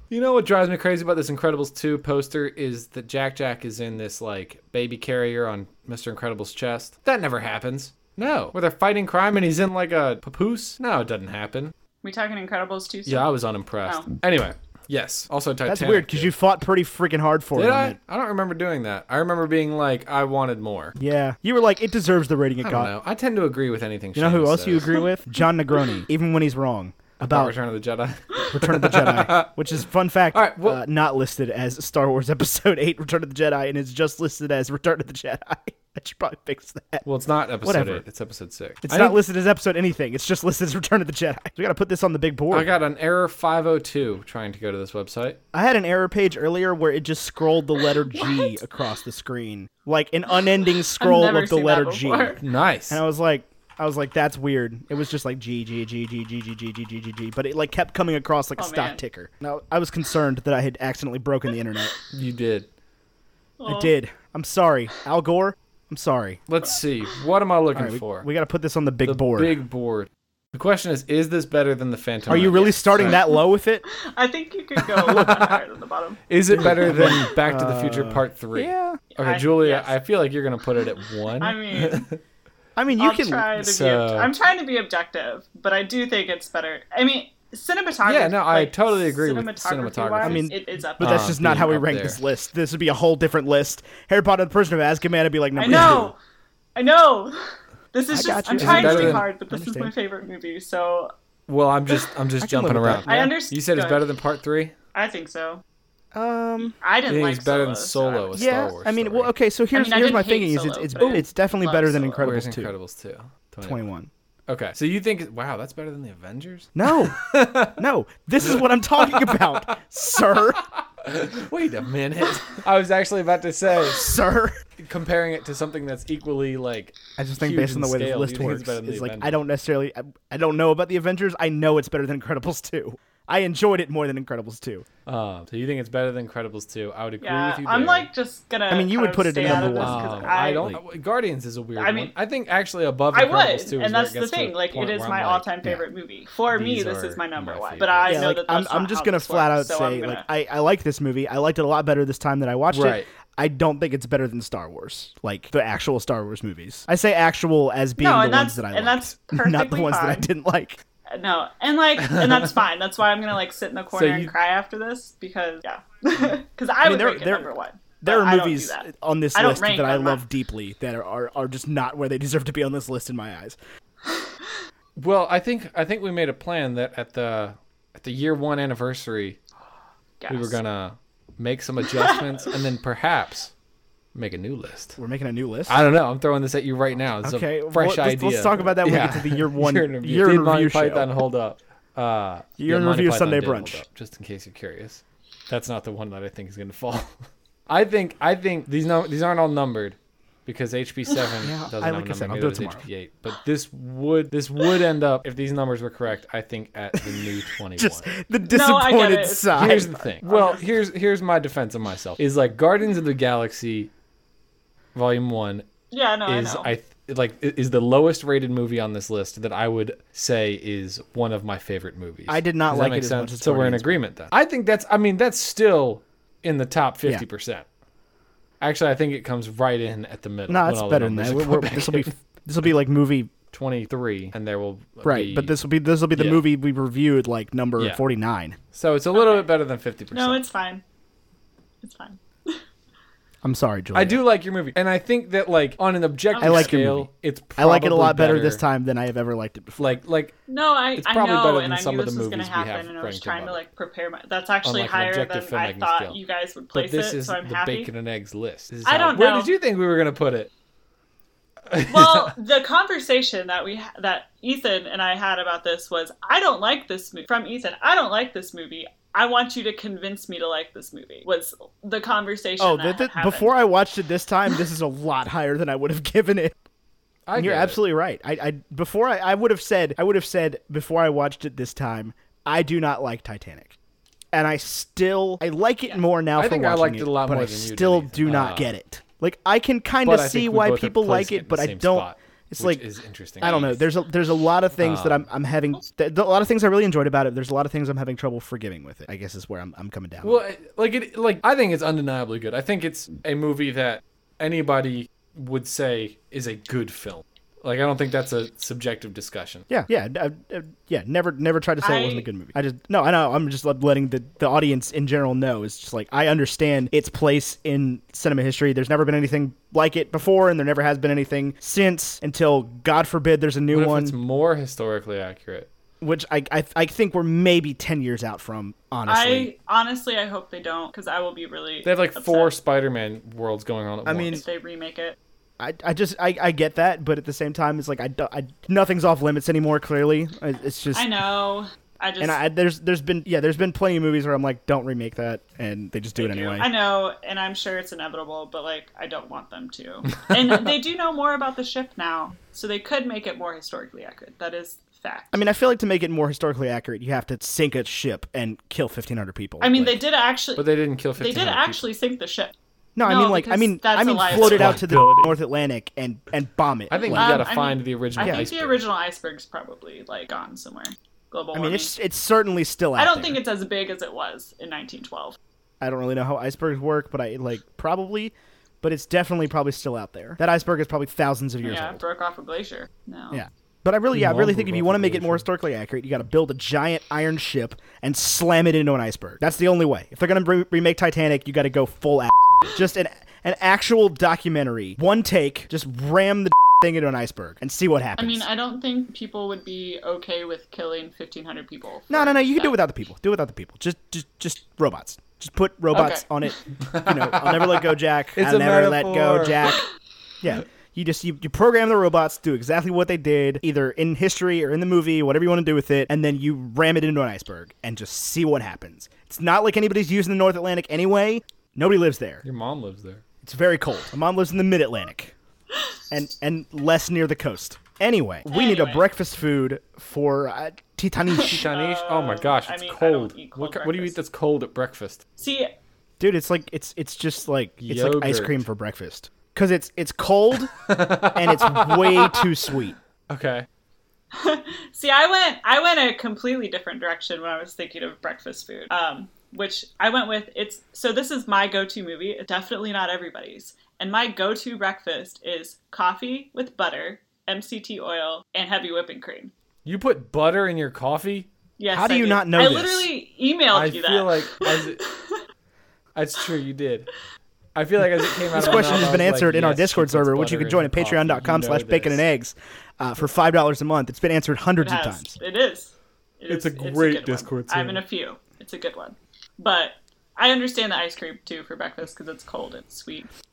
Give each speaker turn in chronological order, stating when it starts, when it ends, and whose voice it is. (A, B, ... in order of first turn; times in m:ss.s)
0:00.1-0:11.7 A
0:12.0-0:13.3 B
0:13.0-0:16.3 A
0:15.7-0:18.0 C
0:17.5-0:21.0 A
0:21.0-0:22.9 C
0:22.6-0:25.0 A
0:24.1-0:27.5 C
0:27.3-0:29.6 A
0:28.5-0:37.0 C
0:30.3-0:30.8 A
0:37.0-0:39.2 A
0:37.6-0:38.0 C
0:38.8-0:42.7 C
0:42.5-0:45.4 A
0:45.5-1:01.9 C
0:48.1-0:48.5 B
0:51.0-0:52.4 B
0:52.4-0:53.0 A
0:58.6-0:59.0 B
1:02.1-1:02.7 A
1:03.6-1:03.9 B
1:03.6-1:06.4 C
1:06.5-1:08.3 A
1:07.7-1:09.5 C
1:09.0-1:13.2 A
1:12.3-1:13.8 C
1:13.9-1:16.2 B
1:14.8-1:15.6 A
1:16.3-1:22.2 A
1:16.5-1:19.0 C
1:17.0-1:17.3 B
1:19.1-1:19.9 B
1:21.4-1:22.1 B
1:22.8-1:23.5 C
1:23.0-1:31.3 B
1:23.6-1:24.3 A
1:28.0-1:32.2 A
1:30.2-1:36.1 C
1:35.6-1:36.2 B
1:35.6-1:36.0 A
1:36.8-1:41.1 B
1:38.1-1:39.9 C
1:38.6-1:39.3 A
1:41.5-1:44.7 A
1:42.4-1:43.1 C
1:43.0-1:44.0 B
1:44.9-1:45.6 B
1:46.1-1:46.8 C
1:46.8-1:48.7 B
1:47.1-1:49.3 A
1:48.3-1:52.7 C
1:49.7-1:52.3 B
1:52.2-1:53.8 A
1:53.6-1:54.1 C
1:54.5-1:57.8 A
1:56.7-2:00.6 C
1:58.4-2:04.2 A
2:03.8-2:04.6 C
2:04.8-2:09.4 A
2:07.2-2:14.8 C
2:15.0-2:18.1 A
2:17.2-2:20.7 B
2:18.7-2:20.8 C
2:19.4-2:25.5 A
2:21.8-2:22.1 B
2:23.1-2:30.2 B
2:26.5-2:28.3 A
2:28.1-2:40.8 C
2:32.7-2:33.1 A
2:38.0-2:40.2 B
2:41.1-2:50.2 B
2:42.0-2:42.6 A
2:43.9-2:44.3 A
2:46.8-2:47.5 C
2:48.0-2:53.6 C
2:55.0-2:59.4 A
3:00.2-3:00.6 B
3:00.3-3:03.5 A
3:01.9-3:02.5 B
3:04.1-3:05.0 A
3:05.0-3:05.8 C
3:05.7-3:17.2 A
3:07.2-3:11.1 C
3:12.6-3:13.8 C
3:17.7-3:28.1 A
3:21.4-3:22.8 C
3:27.8-3:29.9 C
3:28.5-3:30.6 B
3:29.5-3:33.9 A
3:34.9-3:35.7 A
3:35.9-3:36.7 B
3:36.2-3:47.6 A
3:42.3-3:44.0 C
3:48.6-3:52.1 A
3:50.5-3:53.3 C
3:53.5-3:55.5 A
3:55.0-3:58.6 C
3:56.1-3:56.5 A
3:58.7-4:00.4 A
3:59.1-3:59.4 B
4:00.1-4:00.8 B
4:01.8-4:02.6 B
4:03.4-4:04.2 C
4:03.9-4:08.6 A
4:06.3-4:06.7 B
4:06.4-4:10.0 C
4:09.8-4:10.3 A
4:10.5-4:17.9 B
4:11.0-4:13.6 A
4:14.6-4:16.2 A
4:16.7-4:20.5 A
4:18.8-4:19.5 B
4:21.7-4:22.3 A
4:21.9-4:33.5 B
4:32.6-4:36.5 C
4:37.3-4:37.8 A
4:37.4-4:43.7 C
4:44.3-4:52.8 C
4:46.4-4:48.7 A
4:50.0-4:53.8 A
4:53.4-5:00.4 C
4:53.4-4:53.7 B
4:54.8-4:55.3 A
5:00.2-5:09.7 A
5:09.7-5:24.1 C
5:11.8-5:12.3 B
5:23.7-5:25.7 A
5:26.0-5:29.5 C
5:29.0-5:32.5 B
5:31.8-5:34.4 A
5:34.0-5:34.4 C
5:34.3-5:35.2 B
5:35.6-5:41.2 C
5:40.9-5:42.4 B
5:42.2-5:46.7 C
5:46.2-5:55.4 B
5:55.3-6:00.0 C
5:59.6-6:00.6 B
6:00.6-6:01.8 A
6:01.2-6:04.8 B
6:03.0-6:07.4 C
6:04.3-6:05.3 A
6:06.9-6:08.8 A
6:07.1-6:11.9 B
6:08.2-6:08.4 C
6:11.5-6:13.4 C
6:13.0-6:15.4 B
6:15.8-6:22.0 C
6:21.6-6:23.4 B
6:23.3-6:38.4 C
6:24.1-6:25.4 A
6:38.2-6:42.7 B
6:42.1-6:49.8 C
6:45.9-6:46.2 B
6:46.9-6:47.5 A
6:48.4-6:49.7 A
6:50.4-7:02.4 C
7:02.4-7:03.2 A
7:03.4-7:05.3 C
7:06.1-7:11.7 C
7:08.4-7:09.1 B
7:11.3-7:14.2 B
7:11.4-7:15.2 A
7:15.4-7:15.7 B
7:16.2-7:20.7 C
7:17.8-7:18.6 A
7:20.8-7:22.5 A
7:21.3-7:23.0 C
7:23.3-7:23.7 A
7:24.3-7:39.5 B
7:39.8-7:41.5 A
7:41.8-7:45.4 B
7:41.9-7:43.1 C
7:43.7-7:45.0 A
7:46.2-7:47.1 A
7:47.8-7:52.2 A
7:48.5-7:49.2 B
7:48.6-7:55.4 C
7:54.8-8:03.3 B
7:56.5-7:58.0 A